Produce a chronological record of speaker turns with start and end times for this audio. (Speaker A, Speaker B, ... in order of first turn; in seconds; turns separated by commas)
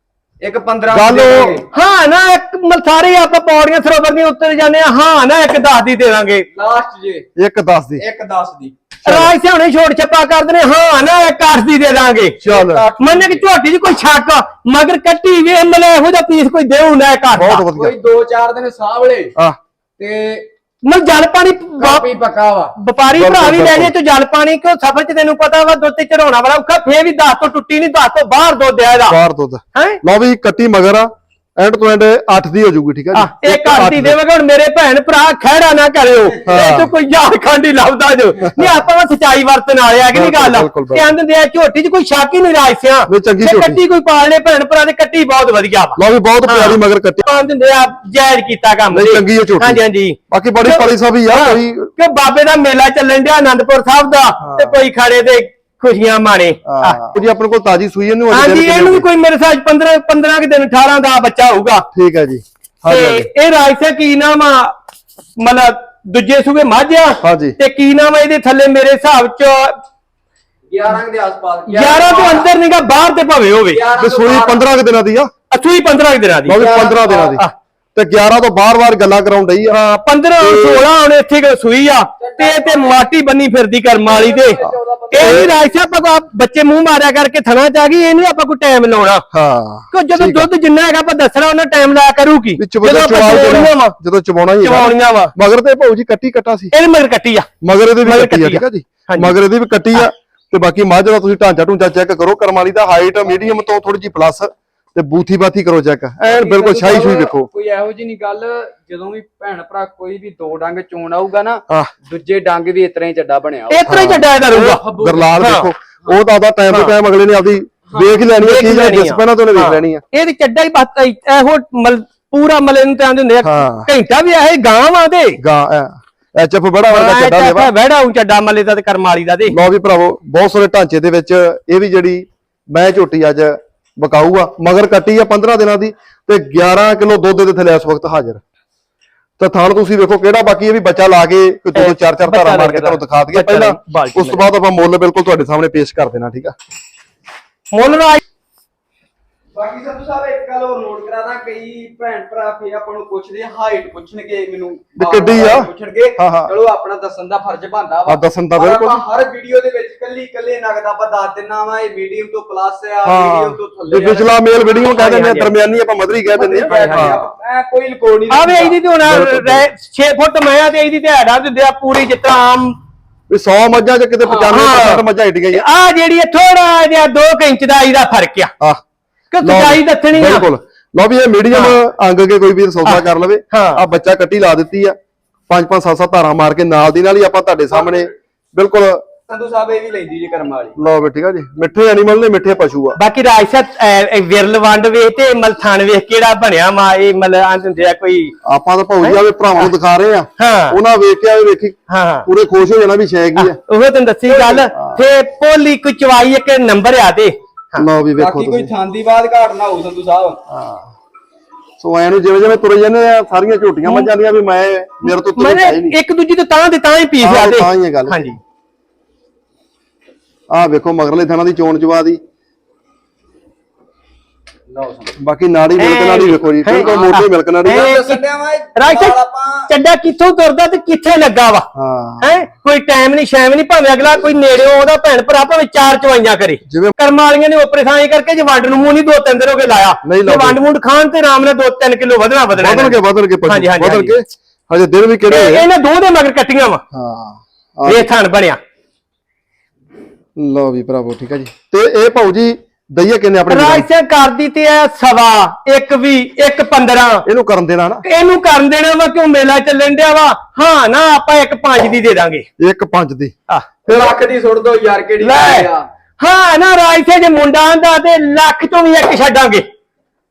Speaker A: 0.4-1.7, Speaker B: 0.9-1.6, Speaker C: 1.7-6.5, Speaker A: 6.5-7.3, Speaker B: 7.4-8.0, Speaker A: 8.0-8.8, Speaker B: 9.0-9.3, Speaker C: 9.1-12.4, Speaker B: 12.4-12.8, Speaker A: 12.5-13.4, Speaker C: 13.0-17.7, Speaker B: 17.4-18.0, Speaker A: 17.7-19.3, Speaker A: 20.0-20.5, Speaker C: 20.9-22.1, Speaker A: 21.8-22.7, Speaker C: 22.8-29.2, Speaker B: 23.2-23.9, Speaker B: 29.1-34.2, Speaker C: 29.8-30.0, Speaker C: 33.1-57.0, Speaker B: 36.4-36.9, Speaker B: 38.4-38.7, Speaker B: 40.1-41.1, Speaker B: 43.1-43.8, Speaker B: 46.0-47.2, Speaker B: 48.9-51.9, Speaker B: 54.4-54.8, Speaker B: 56.7-59.1, Speaker C: 58.3-61.9, Speaker B: 61.9-63.3, Speaker C: 62.9-64.8, Speaker C: 65.4-69.8, Speaker B: 67.2-67.5, Speaker A: 70.7-72.5, Speaker C: 71.7-73.8, Speaker A: 73.7-74.7, Speaker B: 74.0-75.3, Speaker C: 75.5-76.6, Speaker B: 76.5-79.8, Speaker A: 76.5-77.4, Speaker C: 79.6-89.3, Speaker B: 80.4-80.9, Speaker A: 82.2-83.1, Speaker A: 84.1-85.8, Speaker B: 84.6-85.5, Speaker B: 89.3-90.5, Speaker C: 89.9-94.0, Speaker B: 92.6-96.7, Speaker C: 94.6-95.3, Speaker C: 96.7-97.5, Speaker B: 97.6-107.5, Speaker C: 98.0-99.4, Speaker A: 106.3-115.5, Speaker B: 111.7-111.9, Speaker C: 113.7-114.8, Speaker B: 113.9-114.2, Speaker B: 115.0-120.0, Speaker C: 115.4-115.7, Speaker C: 116.7-116.9, Speaker A: 117.9-118.2, Speaker C: 118.4-125.4, Speaker B: 123.4-123.9, Speaker B: 125.4-127.7, Speaker C: 126.9-129.6, Speaker B: 129.5-138.4, Speaker B: 139.4-146.5, Speaker C: 141.8-144.5, Speaker C: 147.7-148.2, Speaker A: 149.6-164.8, Speaker B: 155.0-156.5, Speaker B: 158.1-159.0, Speaker B: 163.1-167.3, Speaker C: 165.0-165.5, Speaker A: 166.3-168.8, Speaker C: 166.6-167.2, Speaker C: 168.3-172.8, Speaker B: 169.1-169.7, Speaker B: 173.3-175.6, Speaker A: 174.2-174.6, Speaker C: 174.5-178.5, Speaker C: 179.3-180.5, Speaker B: 179.4-184.9, Speaker C: 181.5-181.8, Speaker C: 182.8-183.8, Speaker B: 185.5-189.1, Speaker A: 187.7-188.1, Speaker A: 189.3-190.8, Speaker B: 190.8-193.0, Speaker C: 193.0-198.3, Speaker B: 198.4-203.6, Speaker C: 199.0-199.7, Speaker C: 200.4-200.8, Speaker C: 201.9-202.3, Speaker C: 203.4-207.9, Speaker A: 204.3-204.7, Speaker B: 204.7-205.0, Speaker B: 207.8-208.7, Speaker A: 208.2-210.4, Speaker B: 210.5-210.9, Speaker B: 211.8-216.0, Speaker C: 213.8-214.1, Speaker C: 215.0-218.4, Speaker B: 217.2-218.3, Speaker B: 220.5-222.2, Speaker A: 224.7-225.2, Speaker B: 225.2-227.9, Speaker C: 225.8-228.2, Speaker A: 226.7-229.7, Speaker C: 228.8-229.2, Speaker C: 229.7-231.7, Speaker B: 231.8-232.4, Speaker C: 232.2-244.2, Speaker B: 236.7-237.0, Speaker B: 240.1-240.6, Speaker B: 242.6-245.7, Speaker C: 245.3-246.8, Speaker B: 246.9-248.1, Speaker C: 247.9-248.6, Speaker B: 250.4-253.9, Speaker C: 253.5-257.2, Speaker B: 257.3-258.0, Speaker C: 258.0-262.5, Speaker B: 262.6-263.3, Speaker C: 263.5-263.9, Speaker A: 263.9-265.9, Speaker B: 263.9-264.2, Speaker C: 265.2-265.7, Speaker C: 266.2-269.6